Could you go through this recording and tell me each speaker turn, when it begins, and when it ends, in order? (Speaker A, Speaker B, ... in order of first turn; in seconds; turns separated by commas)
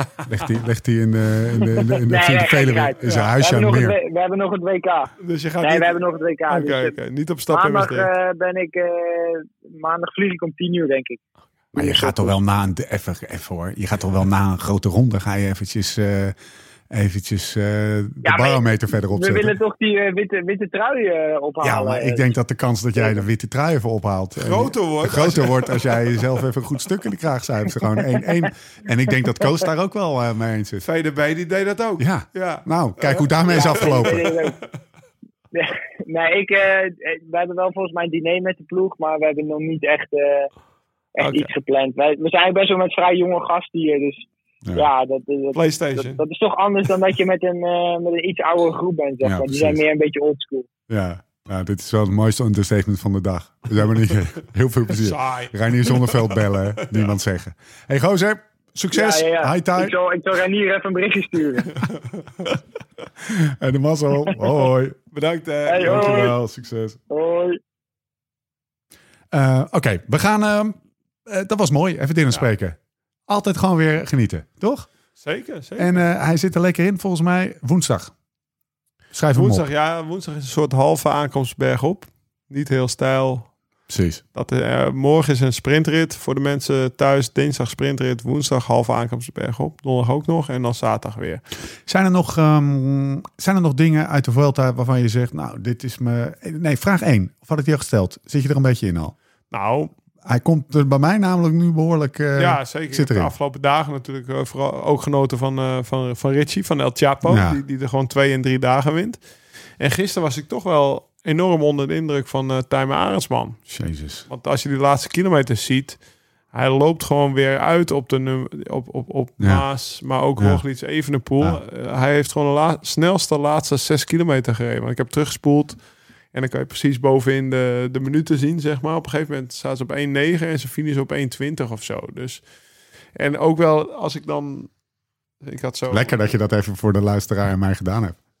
Speaker A: 0.3-4.0, Speaker B: 2.0-6.9, Speaker C: 3.0-3.3, Speaker C: 5.2-8.1, Speaker B: 7.5-11.2, Speaker A: 11.7-16.3, Speaker B: 11.8-12.4, Speaker A: 16.9-19.5, Speaker B: 18.2-22.2, Speaker A: 21.6-30.8, Speaker C: 24.4-26.4, Speaker C: 30.8-34.5, Speaker A: 32.0-34.3, Speaker B: 33.5-34.5, Speaker B: 35.5-40.5, Speaker B: 41.1-50.7, Speaker C: 41.2-41.5, Speaker C: 45.5-46.2, Speaker A: 49.2-49.8, Speaker A: 50.9-59.9, Speaker C: 54.9-57.1, Speaker B: 58.9-61.8, Speaker C: 61.8-62.5, Speaker A: 63.3-65.0, Speaker C: 65.1-66.3, Speaker B: 65.7-66.3, Speaker A: 65.8-67.0, Speaker B: 67.1-67.6, Speaker A: 69.3-72.8, Speaker A: 73.3-74.9, Speaker C: 75.2-76.0, Speaker A: 75.8-78.1, Speaker A: 79.1-79.7, Speaker C: 79.3-83.5, Speaker A: 83.9-84.2, Speaker C: 84.3-91.4, Speaker A: 91.8-99.1, Speaker C: 99.5-99.9, Speaker A: 100.2-103.3, Speaker C: 102.3-109.2, Speaker A: 107.2-107.6, Speaker C: 109.8-113.6, Speaker A: 113.7-114.3, Speaker C: 114.3-116.0, Speaker C: 116.5-125.8, Speaker C: 126.3-132.4, Speaker C: 133.1-134.7, Speaker C: 135.4-136.1, Speaker A: 135.9-138.2